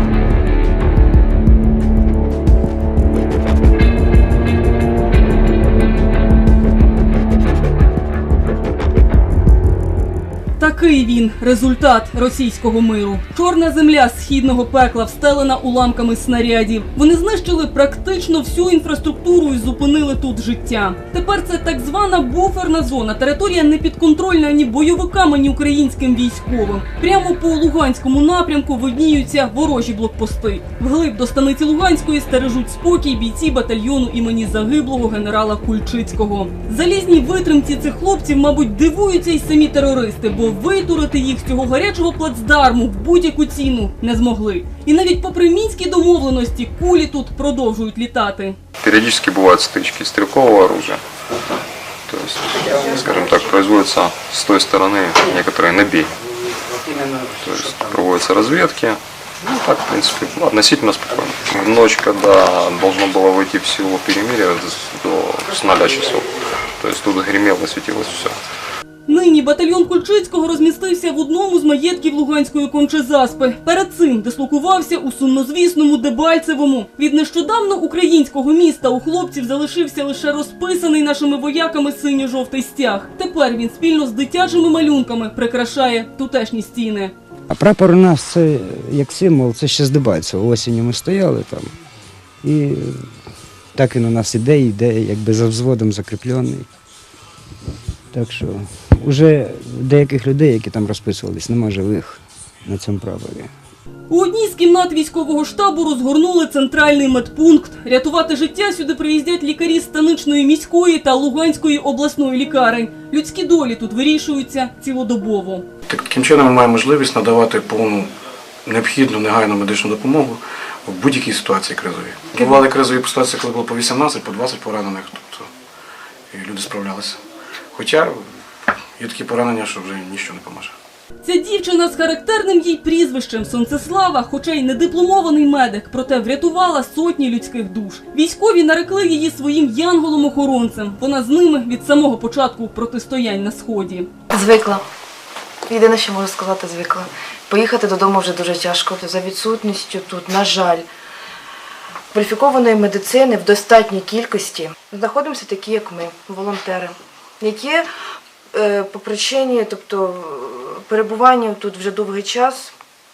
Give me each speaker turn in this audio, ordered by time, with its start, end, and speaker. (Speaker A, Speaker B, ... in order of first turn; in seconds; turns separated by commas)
Speaker A: 10.6-48.6, Speaker B: 48.8-51.0, Speaker B: 52.1-56.1, Speaker C: 56.7-57.5, Speaker B: 57.4-66.3, Speaker B: 66.8-68.3, Speaker A: 69.1-87.1, Speaker C: 87.5-91.7, Speaker C: 92.4-93.1, Speaker C: 93.7-96.7, Speaker C: 98.1-103.5, Speaker A: 104.1-115.7, Speaker D: 115.9-118.1, Speaker D: 118.7-125.5, Speaker D: 126.3-127.2, Speaker D: 127.7-128.2, Speaker D: 129.0-130.7, Speaker A: 131.2-144.1, Speaker E: 144.3-144.8, Speaker E: 145.7-150.9, Speaker E: 152.1-157.8, Speaker E: 158.5-162.7